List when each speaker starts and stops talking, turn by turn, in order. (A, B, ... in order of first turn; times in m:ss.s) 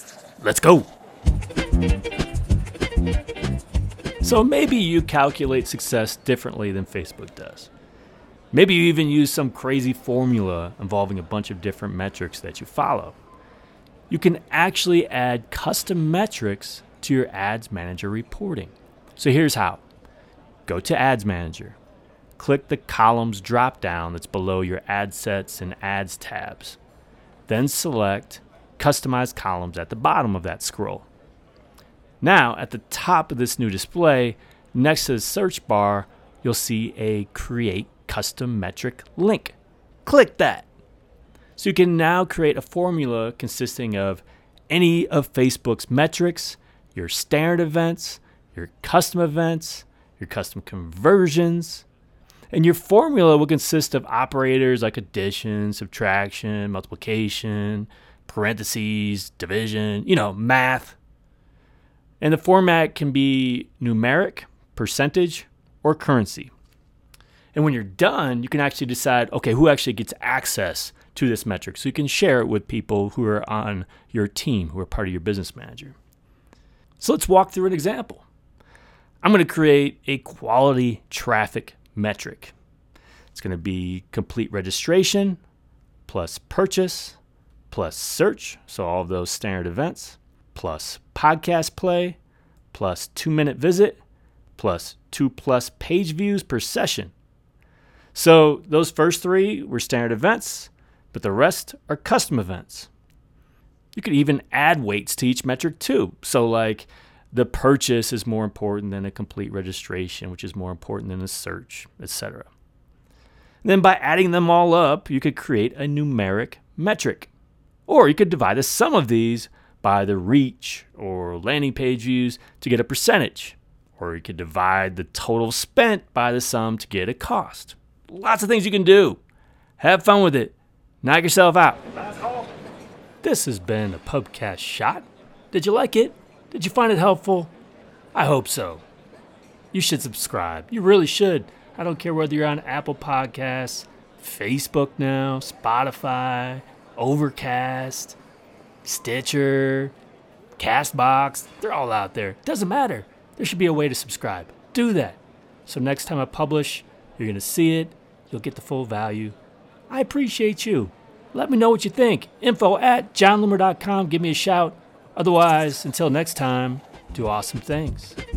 0:00.4-0:00.9 A
0:04.2-0:07.7 A
0:08.5-0:13.2 A
0:14.1-0:19.8 A
0:20.7-0:21.8 A
0:22.4-0:26.8 A
0:27.5-0:31.1 A
0:32.2-0:40.7 A
0:41.6-0:51.8 A
0:52.5-1:01.0 A
1:02.2-1:06.5 A
1:07.5-1:16.0 A
1:17.0-1:18.2 A
1:19.2-1:22.5 A
1:23.3-1:25.4 A
1:26.1-1:27.2 A
1:27.7-1:32.2 A
1:32.7-1:34.0 A
1:34.6-1:37.1 A
1:38.1-1:42.9 A
1:44.0-1:52.5 A
1:53.6-1:57.3 A
1:57.9-2:09.2 A
2:09.8-2:12.0 A
2:13.2-2:17.5 A
2:18.2-2:18.8 A
2:19.7-2:28.2 A
2:28.8-2:29.9 A
2:30.6-2:39.4 A
2:39.9-2:48.2 A